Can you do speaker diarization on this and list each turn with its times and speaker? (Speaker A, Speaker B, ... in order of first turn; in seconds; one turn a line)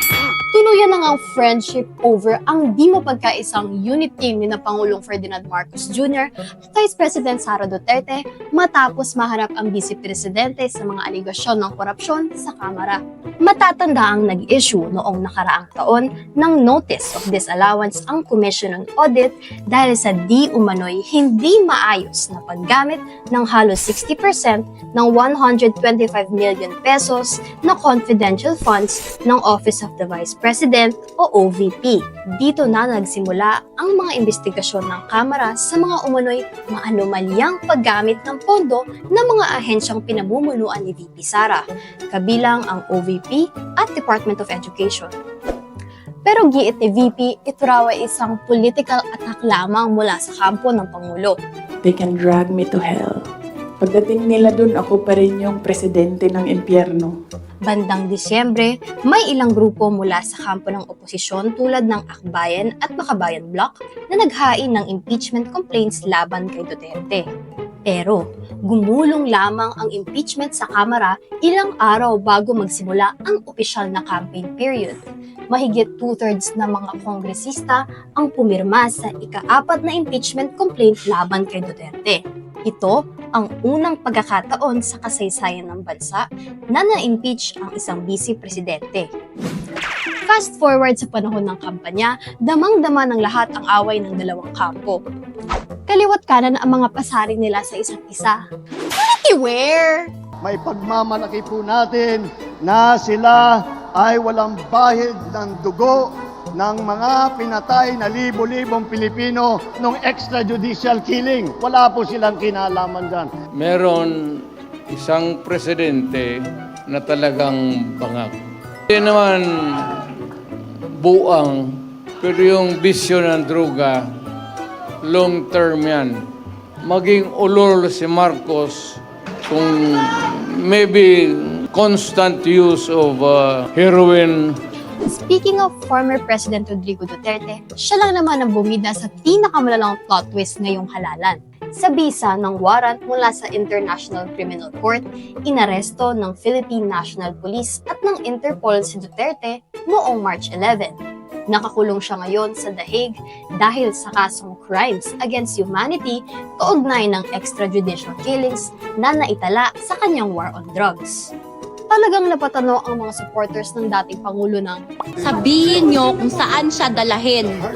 Speaker A: 0.5-45.1
Speaker A: 46.3-51.3
Speaker B: 51.8-53.2
Speaker B: 53.8-57.1
Speaker A: 57.6-67.2
Speaker A: 67.9-75.0
Speaker A: 75.5-86.2
Speaker A: 86.7-89.1
Speaker A: 90.3-95.0
Speaker A: 95.9-98.4
Speaker A: 99.0-100.1
Speaker C: 100.4-113.3
Speaker D: 113.6-116.3
Speaker D: 116.9-118.3
Speaker D: 118.9-120.2
Speaker D: 121.0-124.1
Speaker D: 125.0-126.2
Speaker D: 126.8-134.6
Speaker A: 135.1-151.0
Speaker A: 151.5-161.3
Speaker A: 161.9-164.8
Speaker E: 165.2-167.6